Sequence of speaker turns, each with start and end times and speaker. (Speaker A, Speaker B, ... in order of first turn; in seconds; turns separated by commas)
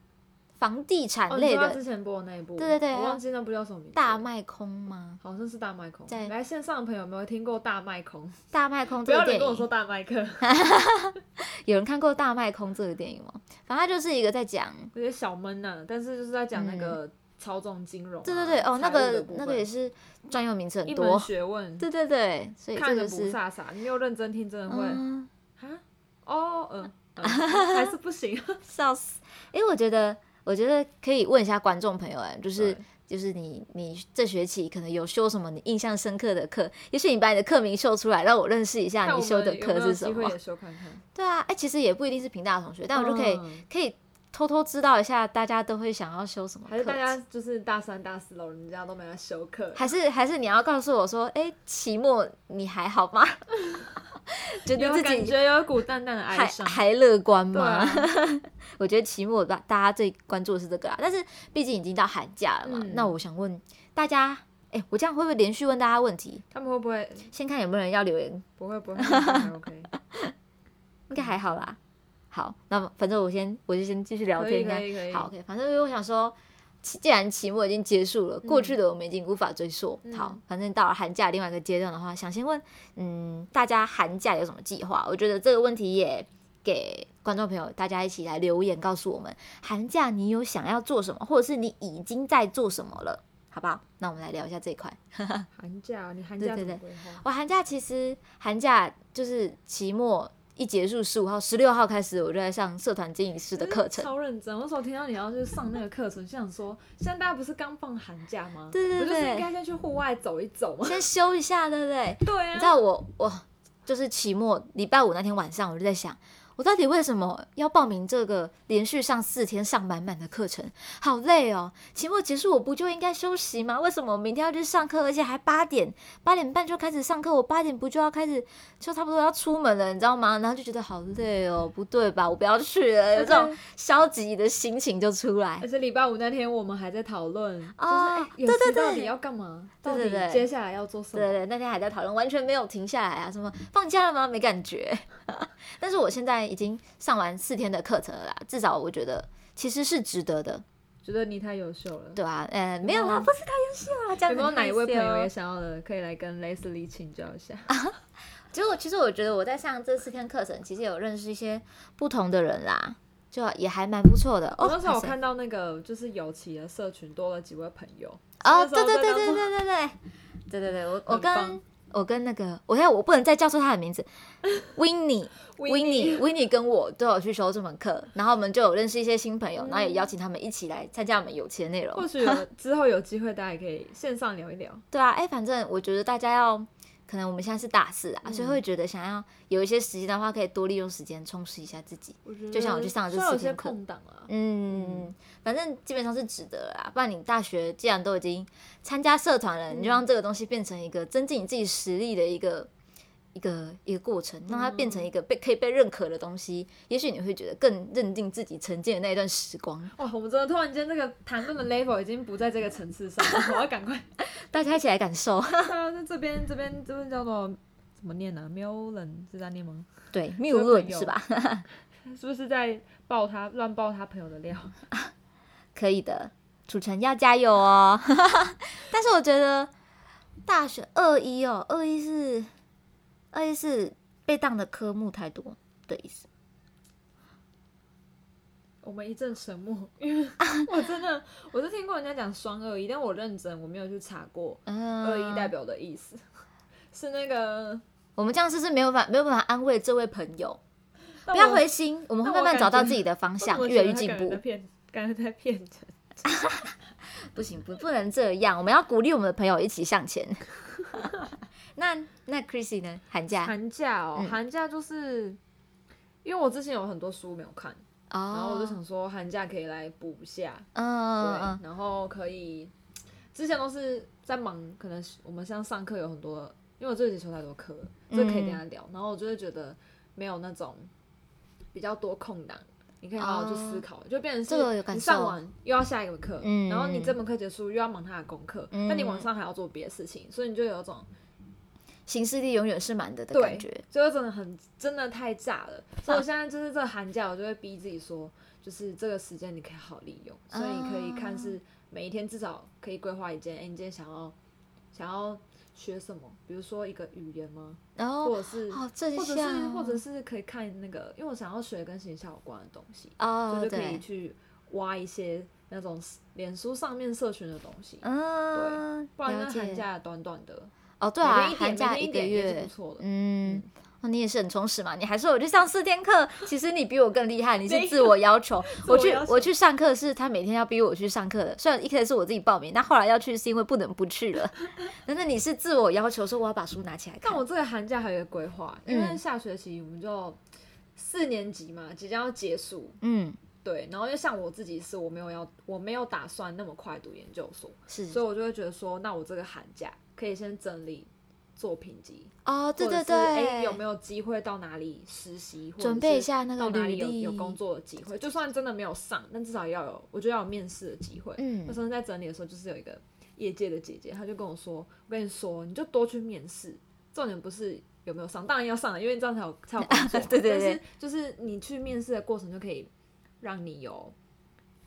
Speaker A: 0.6-1.8, Speaker B: 1.3-4.2, Speaker A: 2.6-3.2, Speaker A: 4.0-5.2, Speaker B: 5.2-8.4, Speaker A: 8.5-9.7, Speaker B: 9.0-10.6, Speaker A: 10.4-14.9, Speaker B: 14.9-19.7, Speaker A: 16.5-17.0, Speaker A: 18.2-21.3, Speaker B: 20.9-21.9, Speaker A: 21.8-23.4, Speaker B: 22.8-25.0, Speaker A: 24.7-25.3, Speaker B: 25.6-28.6, Speaker A: 27.2-27.9, Speaker A: 28.6-40.3, Speaker B: 32.6-32.9, Speaker B: 39.0-41.0, Speaker A: 41.1-47.1, Speaker B: 42.9-43.6, Speaker B: 46.7-49.9, Speaker A: 49.8-53.4, Speaker A: 54.5-55.3, Speaker B: 54.6-56.8, Speaker A: 56.3-66.4, Speaker B: 57.5-58.1, Speaker B: 62.6-63.1, Speaker B: 66.5-67.3, Speaker A: 67.3-68.5, Speaker B: 68.6-69.9, Speaker A: 69.0-70.3, Speaker A: 71.1-71.8, Speaker A: 72.3-95.5, Speaker B: 74.3-75.3, Speaker B: 78.4-78.8, Speaker B: 80.0-80.4, Speaker B: 95.5-97.2, Speaker A: 96.4-104.1, Speaker B: 103.5-111.0, Speaker A: 108.7-109.5, Speaker A: 110.8-135.7, Speaker B: 112.2-112.8, Speaker B: 133.1-133.6, Speaker B: 135.6-141.4, Speaker A: 137.8-139.1, Speaker A: 139.8-140.5, Speaker A: 141.1-150.6, Speaker B: 151.0-152.2, Speaker A: 152.1-155.3, Speaker B: 152.8-153.3, Speaker B: 154.2-157.8, Speaker A: 158.5-165.1, Speaker B: 164.6-169.5, Speaker A: 168.4-170.0, Speaker A: 170.5-174.1, Speaker B: 171.1-171.6, Speaker A: 174.7-182.4, Speaker B: 175.5-176.3, Speaker B: 179.6-180.1, Speaker B: 181.9-184.8, Speaker A: 184.9-193.7, Speaker B: 188.2-188.6, Speaker B: 192.2-195.1, Speaker A: 194.3-202.7, Speaker B: 199.7-200.0, Speaker A: 203.3-209.9, Speaker B: 204.5-205.1, Speaker B: 209.9-214.1, Speaker A: 214.4-215.7, Speaker B: 215.6-219.9, Speaker A: 220.1-221.7, Speaker B: 220.4-221.1, Speaker B: 222.1-224.7, Speaker A: 225.7-229.7, Speaker A: 230.4-232.5, Speaker A: 233.3-236.3, Speaker B: 238.8-246.2, Speaker A: 244.7-245.5, Speaker B: 246.9-247.8, Speaker A: 248.2-250.6, Speaker B: 251.2-251.7, Speaker A: 251.3-254.4, Speaker B: 252.2-256.6, Speaker A: 256.2-261.1, Speaker A: 261.7-263.5, Speaker B: 263.4-265.4, Speaker B: 266.2-270.7, Speaker A: 268.1-268.8, Speaker A: 270.7-271.6, Speaker B: 271.2-272.7, Speaker B: 273.3-280.9, Speaker A: 278.1-278.6, Speaker B: 281.7-291.1, Speaker A: 283.2-283.8, Speaker A: 284.5-285.4, Speaker A: 286.4-287.1, Speaker A: 288.7-289.3, Speaker A: 292.1-293.8, Speaker B: 293.3-304.3, Speaker A: 300.5-301.6, Speaker B: 304.9-320.7, Speaker A: 308.0-310.0, Speaker A: 313.2-314.0, Speaker A: 318.0-319.8, Speaker A: 321.0-337.4, Speaker B: 321.2-323.7, Speaker B: 327.6-329.5, Speaker B: 337.2-340.4, Speaker A: 338.9-339.2, Speaker B: 340.9-343.0, Speaker A: 343.0-343.4, Speaker B: 343.6-372.9, Speaker A: 347.9-348.2, Speaker A: 352.4-353.8, Speaker A: 355.8-357.6, Speaker A: 361.4-361.8, Speaker A: 369.8-370.8, Speaker B: 373.4-374.1